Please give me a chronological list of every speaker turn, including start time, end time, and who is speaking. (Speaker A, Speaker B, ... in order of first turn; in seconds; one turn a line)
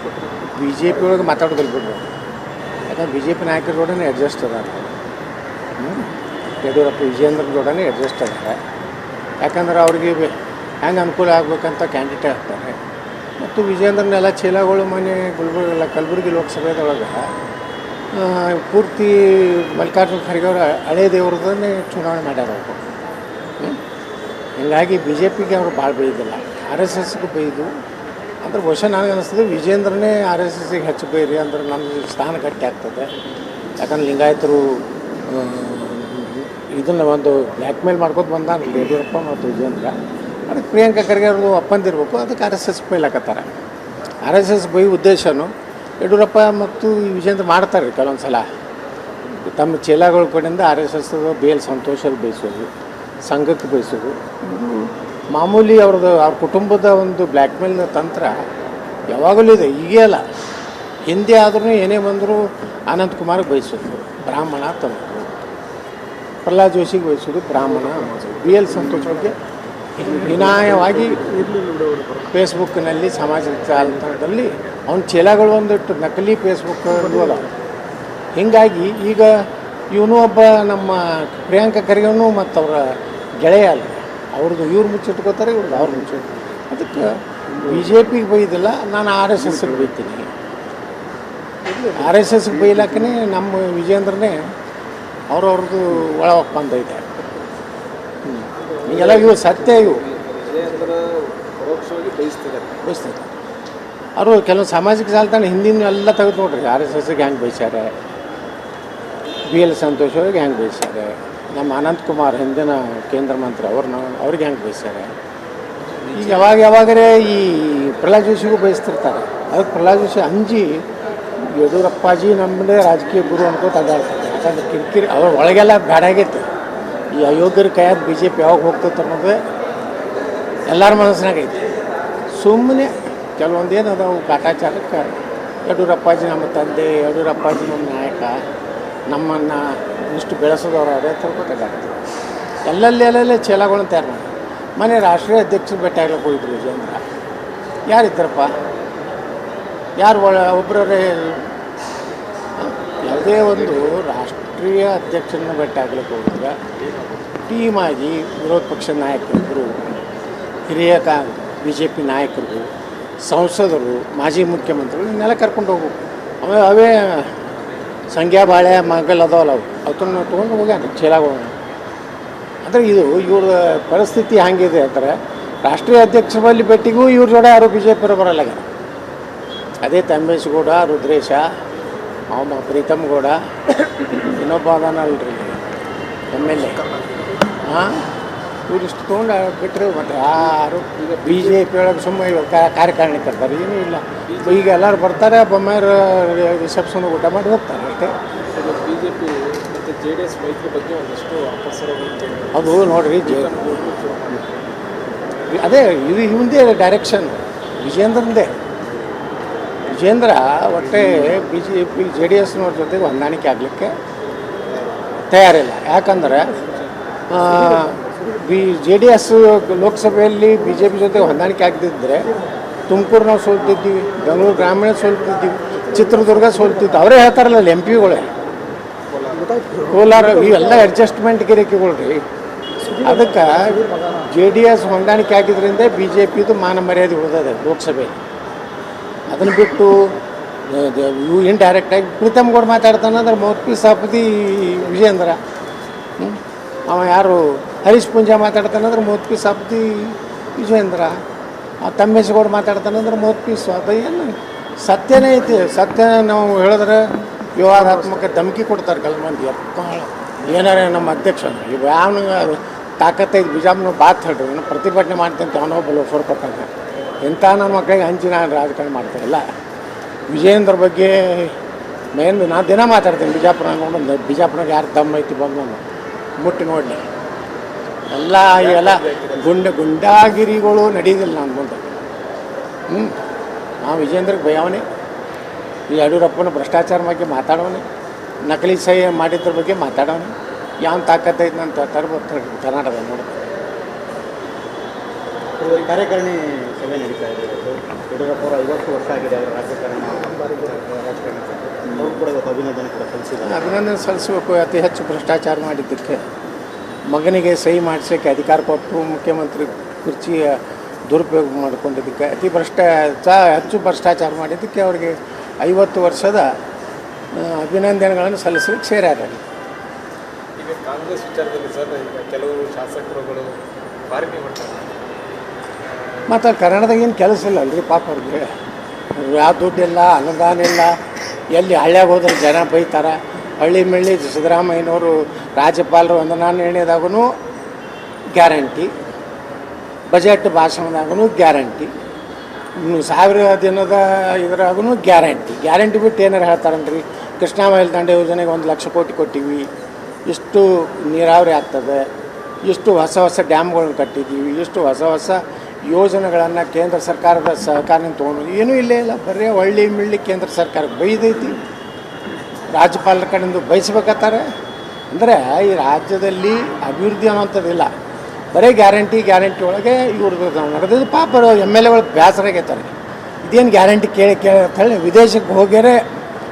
Speaker A: 0.5-2.1
Speaker A: 2.9-4.9
Speaker A: 5.8-6.1
Speaker A: 6.6-8.6
Speaker A: 9.4-12.8
Speaker A: 13.4-17.3
Speaker A: 18.1-22.8
Speaker A: 24.6-27.7
Speaker A: 28.4-33.1
Speaker A: 33.8-40.0
Speaker A: 40.5-43.5
Speaker A: 44.2-48.4
Speaker A: 49.4-52.7
Speaker A: 53.2-58.3
Speaker A: 59.1-60.2
Speaker A: 61.1-65.3
Speaker A: 66.4-69.3
Speaker A: 70.0-71.4
Speaker B: 71.1-72.1
Speaker A: 72.3-77.5
Speaker B: 73.8-74.4
Speaker A: 78.3-79.3
Speaker A: 79.9-90.3
Speaker A: 91.8-94.4
Speaker A: 95.3-97.0
Speaker A: 98.2-100.0
Speaker B: 98.8-102.8
Speaker A: 102.8-103.2
Speaker A: 104.2-107.9
Speaker A: 109.5-115.1
Speaker B: 115.9-116.5
Speaker A: 116.1-120.8
Speaker A: 121.5-126.5
Speaker A: 127.1-129.4
Speaker A: 130.7-131.6
Speaker A: 132.3-135.1
Speaker A: 135.7-138.4
Speaker A: 139.1-142.0
Speaker A: 142.7-147.0
Speaker A: 147.9-148.5
Speaker A: 150.0-151.5
Speaker A: 152.6-156.5
Speaker A: 157.4-160.0
Speaker A: 160.7-162.7
Speaker A: 163.2-167.3
Speaker A: 168.1-171.5
Speaker A: 172.6-178.6
Speaker A: 179.8-181.4
Speaker A: 182.3-185.6
Speaker A: 186.3-186.8
Speaker B: 186.8-187.4
Speaker A: 187.6-188.1
Speaker A: 188.7-198.2
Speaker B: 190.3-191.6
Speaker B: 194.3-194.8
Speaker B: 198.5-204.7
Speaker A: 202.5-203.6
Speaker A: 205.5-208.6
Speaker A: 209.9-213.9
Speaker A: 215.3-216.5
Speaker A: 217.3-222.3
Speaker A: 222.9-228.3
Speaker B: 229.1-229.7
Speaker A: 229.8-232.2
Speaker A: 233.0-238.1
Speaker A: 239.3-240.0
Speaker A: 240.7-245.4
Speaker A: 246.2-251.2
Speaker A: 251.8-257.0
Speaker A: 257.5-266.7
Speaker A: 267.2-269.4
Speaker A: 270.3-271.5
Speaker A: 272.1-275.8
Speaker A: 276.4-277.0
Speaker A: 278.1-281.9
Speaker B: 278.4-279.5
Speaker A: 282.9-283.2
Speaker A: 283.8-284.8
Speaker A: 285.9-287.8
Speaker A: 288.4-290.3
Speaker A: 290.8-293.5
Speaker C: 295.6-303.8
Speaker A: 303.4-306.2
Speaker A: 307.1-316.5
Speaker A: 317.3-319.4
Speaker B: 320.6-323.6
Speaker B: 324.1-324.9
Speaker A: 326.3-328.4
Speaker A: 329.1-330.9
Speaker A: 331.5-337.2
Speaker A: 338.3-338.9
Speaker A: 340.1-341.9
Speaker A: 342.8-349.7
Speaker A: 350.3-352.1
Speaker A: 352.6-361.6
Speaker A: 362.7-364.4
Speaker A: 365.1-367.9
Speaker A: 368.5-372.9
Speaker A: 373.4-376.0